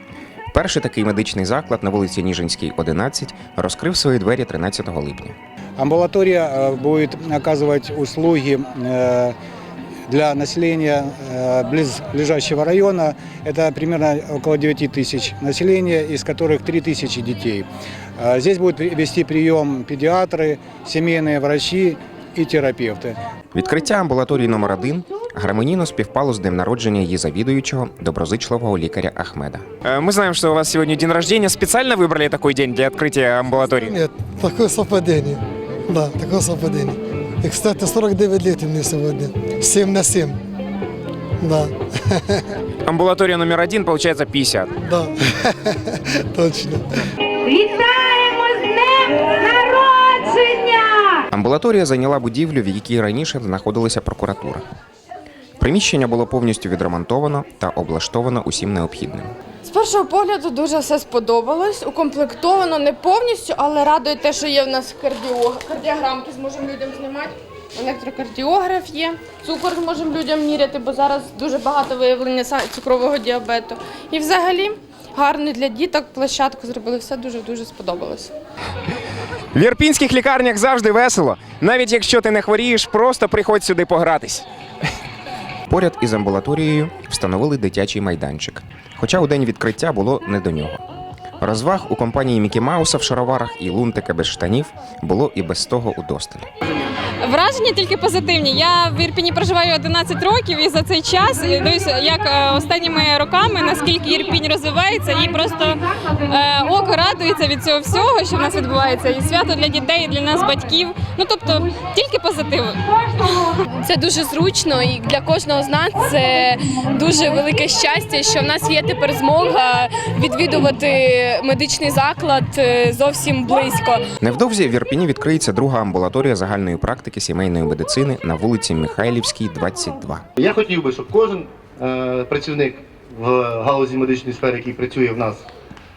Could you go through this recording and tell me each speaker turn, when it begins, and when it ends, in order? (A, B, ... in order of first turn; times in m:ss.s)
0:00.5-0:05.4 A
0:05.8-0:09.4 B
0:10.1-0:23.2 B
0:23.5-0:29.8 A
0:29.8-0:33.9 C
0:33.6-0:40.4 D
0:41.4-0:41.7 D
0:42.8-0:44.7 C
0:44.9-0:45.8 D
0:46.3-0:46.8 D
0:51.3-0:54.6 A
0:55.6-0:59.3 A
0:59.7-1:18.3 E
1:19.5-1:24.4 C
1:25.7-1:30.8 A
1:31.4-1:36.5 A
1:37.2-1:53.4 F
1:53.8-2:04.0 G
2:04.2-2:10.2 A
2:10.4-2:15.4 H